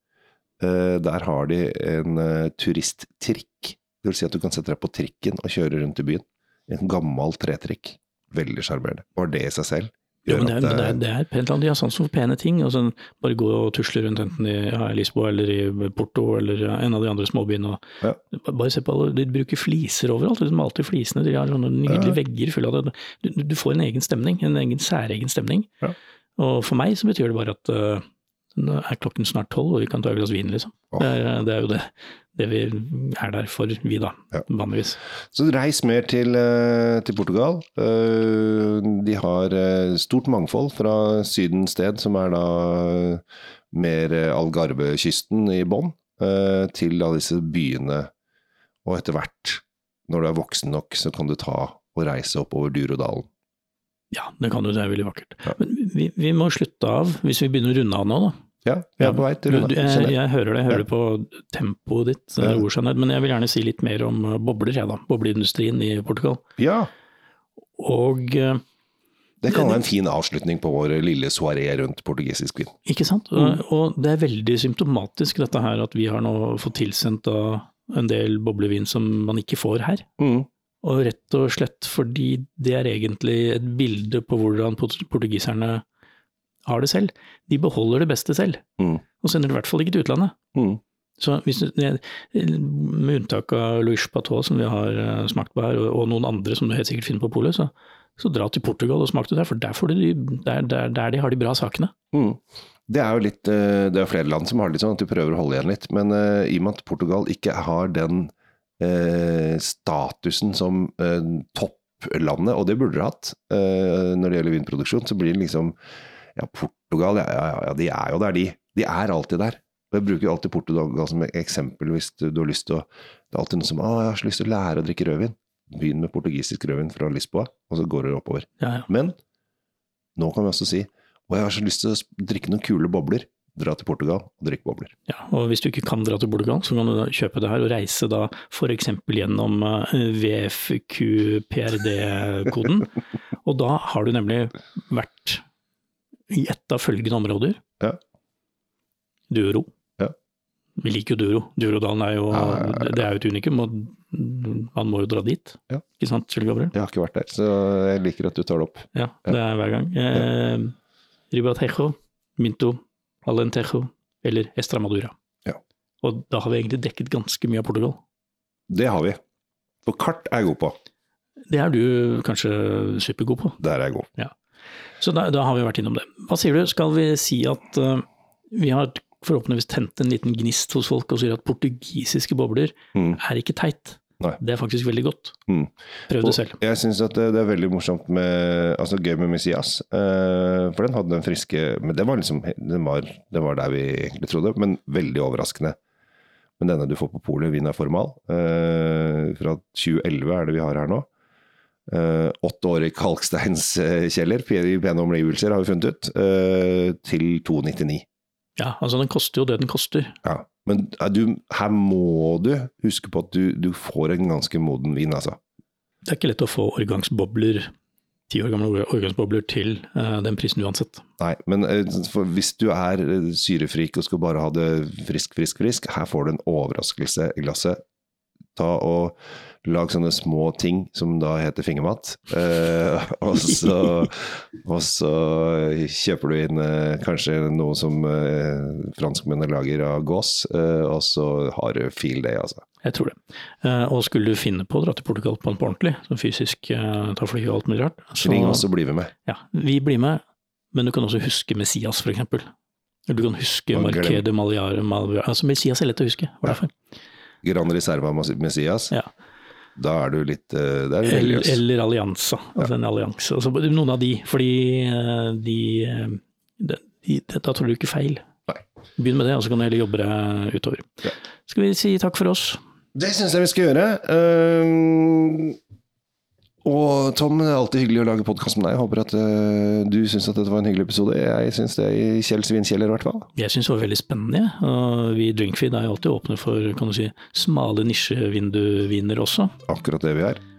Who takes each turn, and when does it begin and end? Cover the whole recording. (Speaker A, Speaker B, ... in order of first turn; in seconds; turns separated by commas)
Speaker A: 0.6-11.0, Speaker B: 10.3-25.7, Speaker A: 21.9-22.2, Speaker B: 26.4-28.1, Speaker B: 28.6-35.0, Speaker A: 35.3-48.1, Speaker A: 48.9-53.3, Speaker B: 54.1-58.4, Speaker A: 58.6-60.2, Speaker B: 59.0-66.4, Speaker A: 66.6-66.9, Speaker B: 67.8-68.6, Speaker A: 69.4-72.8, Speaker B: 69.5-69.8, Speaker B: 72.8-80.1, Speaker A: 80.2-80.5, Speaker B: 80.8-85.8, Speaker B: 86.7-88.7, Speaker B: 89.2-90.4, Speaker A: 90.5-90.8, Speaker B: 91.2-101.9, Speaker A: 102.1-115.8, Speaker A: 116.3-129.2, Speaker B: 128.6-128.9, Speaker A: 130.2-134.9, Speaker B: 135.1-142.9, Speaker B: 143.4-145.4, Speaker B: 146.3-147.6, Speaker B: 149.3-149.7, Speaker B: 150.8-156.7, Speaker A: 152.3-153.0, Speaker A: 156.7-159.4, Speaker B: 158.9-160.8, Speaker B: 161.3-165.2, Speaker B: 166.0-168.0, Speaker A: 168.7-169.2, Speaker A: 169.9-170.8, Speaker B: 171.5-173.6, Speaker A: 173.6-174.1, Speaker B: 175.0-185.4, Speaker A: 185.5-195.8, Speaker B: 186.1-186.6, Speaker A: 196.6-201.1, Speaker A: 201.9-208.1, Speaker B: 208.6-210.2, Speaker A: 210.2-215.4, Speaker B: 216.1-217.7, Speaker B: 218.3-221.0, Speaker A: 221.2-227.8, Speaker A: 228.6-242.7, Speaker B: 242.8-248.7, Speaker A: 248.2-249.1, Speaker B: 249.2-252.5, Speaker B: 253.1-256.7, Speaker A: 253.7-254.2, Speaker A: 257.4-258.9, Speaker A: 259.8-261.6, Speaker B: 261.0-268.3, Speaker B: 269.0-272.6, Speaker A: 272.9-275.6, Speaker A: 276.6-283.3, Speaker B: 283.4-289.6, Speaker A: 289.7-290.4